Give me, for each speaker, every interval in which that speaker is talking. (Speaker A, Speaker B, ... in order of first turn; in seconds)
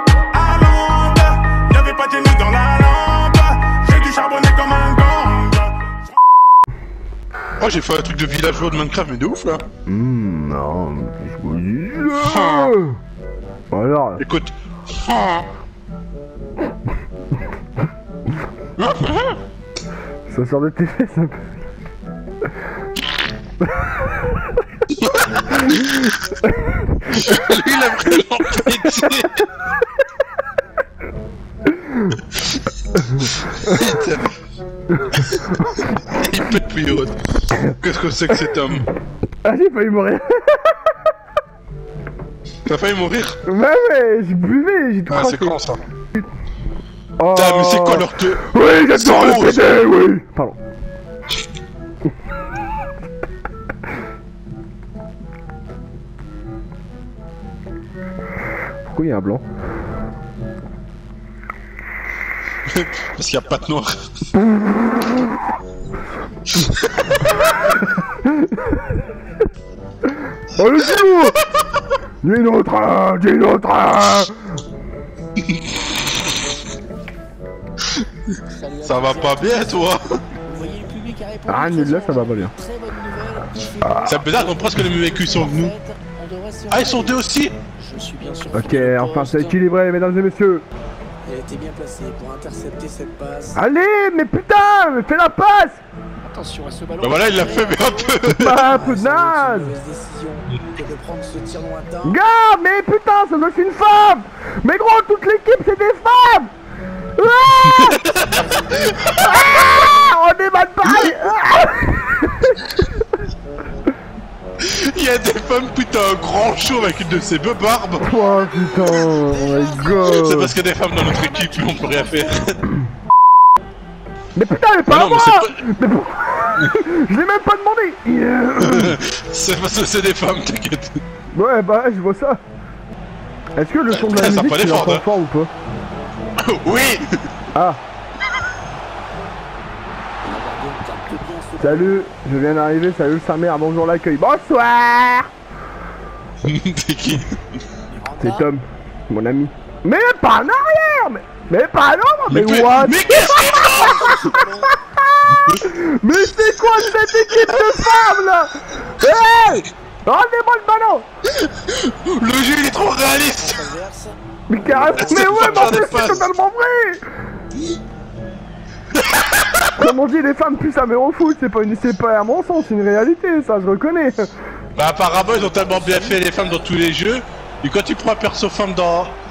Speaker A: 0.3-6.0
Speaker B: 7.6-9.6, 12.2-12.8, 14.2-15.5, 18.8-19.4, 25.0-26.0, 27.1-29.5, 33.3-34.3, 35.1-38.9, 42.6-43.4, 45.1-45.8, 47.3-49.7, 62.7-64.1, 66.6-67.2, 75.4-75.7, 78.8-80.2, 84.0-85.7, 86.7-87.5, 97.0-98.6, 107.7-108.5, 114.6-118.1, 120.0-122.6, 124.9-125.6, 128.6-131.0, 133.9-135.1, 136.4-137.2, 146.4-147.4, 152.3-154.3, 155.4-155.6, 159.4-159.7, 161.4-163.6, 165.0-166.3, 169.0-169.7, 174.8-179.2
Speaker C: 9.9-13.0, 13.7-14.2, 20.3-21.5, 23.6-24.3, 26.5-26.9, 31.8-32.2, 35.0-35.8, 39.4-41.0, 43.5-45.6, 47.2-50.6, 58.9-59.4, 64.6-65.2, 68.0-68.9, 70.3-71.4, 72.2-74.6, 81.5-82.5, 83.8-84.2, 88.5-90.7, 93.5-95.8, 98.2-99.8, 102.0-106.5, 107.2-108.0, 109.1-112.8, 118.0-120.5, 124.3-129.0, 131.3-132.4, 133.6-135.5, 137.6-137.8, 141.6-145.3, 148.2-153.3, 155.6-161.1, 164.5-167.0, 169.8-174.3
Speaker D: 78.5-89.6, 91.2-93.6, 96.2-102.2, 108.2-110.2, 116.2-117.5, 118.0-120.3, 121.0-122.6, 140.2-142.0, 147.9-148.5, 153.0-154.8, 162.8-166.0, 175.2-176.8